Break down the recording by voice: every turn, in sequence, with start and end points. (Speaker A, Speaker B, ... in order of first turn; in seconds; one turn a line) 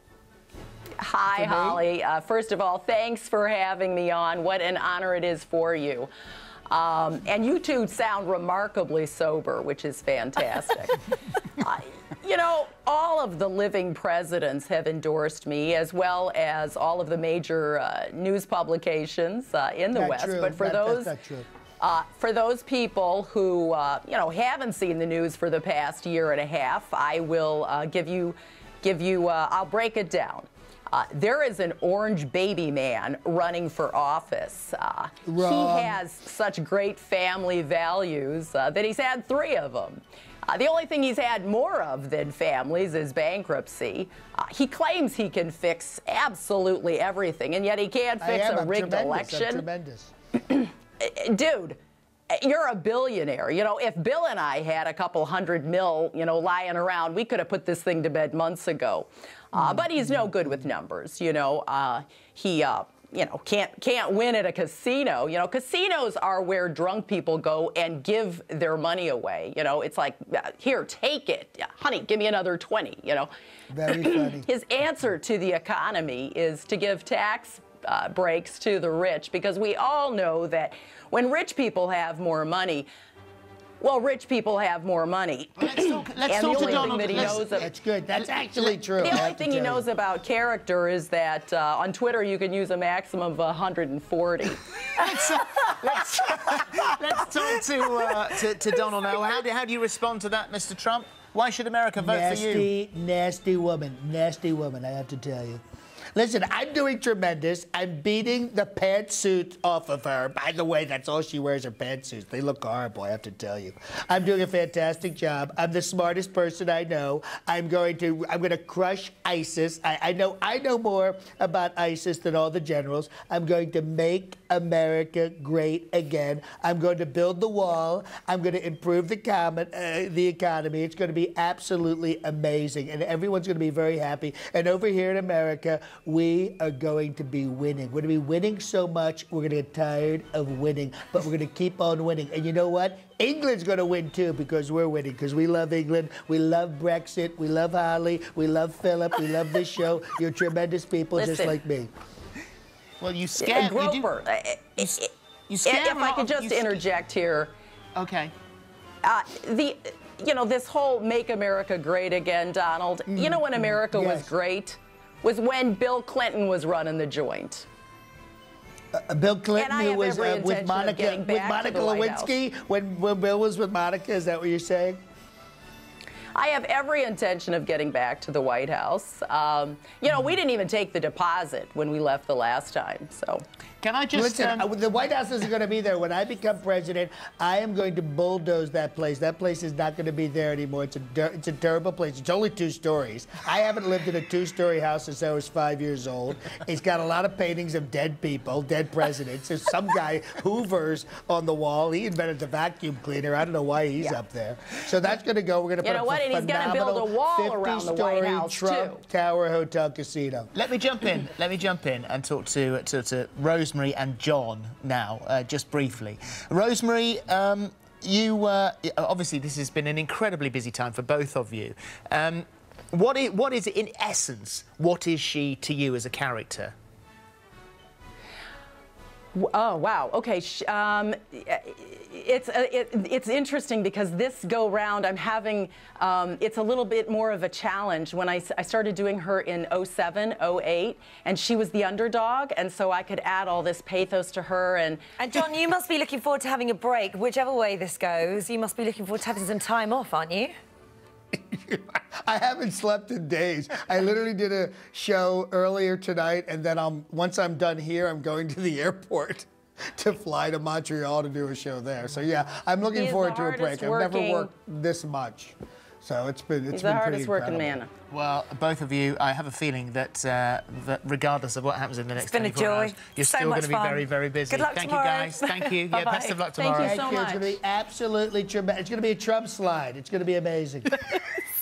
Speaker A: 1.0-6.1
Speaker B: 1.4-1.8
Speaker A: 6.7-11.0
Speaker A: 11.6-21.1
Speaker B: 19.9-21.5
Speaker A: 21.8-49.7
Speaker B: 35.3-36.0
Speaker B: 48.2-50.1
Speaker A: 50.5-51.8
Speaker A: 52.3-73.3
Speaker B: 59.6-59.9
Speaker B: 73.7-74.5
Speaker A: 73.9-82.9
Speaker A: 83.8-87.7
Speaker C: 85.6-87.7
Speaker B: 86.5-89.9
Speaker C: 88.2-89.2
Speaker A: 89.0-94.6
Speaker C: 95.0-102.7
Speaker B: 102.0-105.6
Speaker B: 106.2-151.9
Speaker A: 151.2-151.6
Speaker C: 153.0-154.1
Speaker A: 153.4-155.1
Speaker C: 154.8-156.9
Speaker A: 155.7-157.5
Speaker C: 157.9-158.3
Speaker A: 159.0-167.7
Speaker B: 163.1-164.3
Speaker B: 168.9-175.0
Speaker A: 169.6-172.3
Speaker A: 176.3-183.4
Speaker C: 183.8-184.7
Speaker B: 184.1-210.5
Speaker A: 205.8-209.0
Speaker C: 210.5-226.7
Speaker A: 229.3-245.0
Speaker D: 245.2-250.5
Speaker B: 251.3-267.8
Speaker A: 262.9-264.5
Speaker A: 266.7-267.9
Speaker C: 268.1-277.0
Speaker D: 272.2-276.8
Speaker A: 276.6-277.6
Speaker B: 276.8-281.0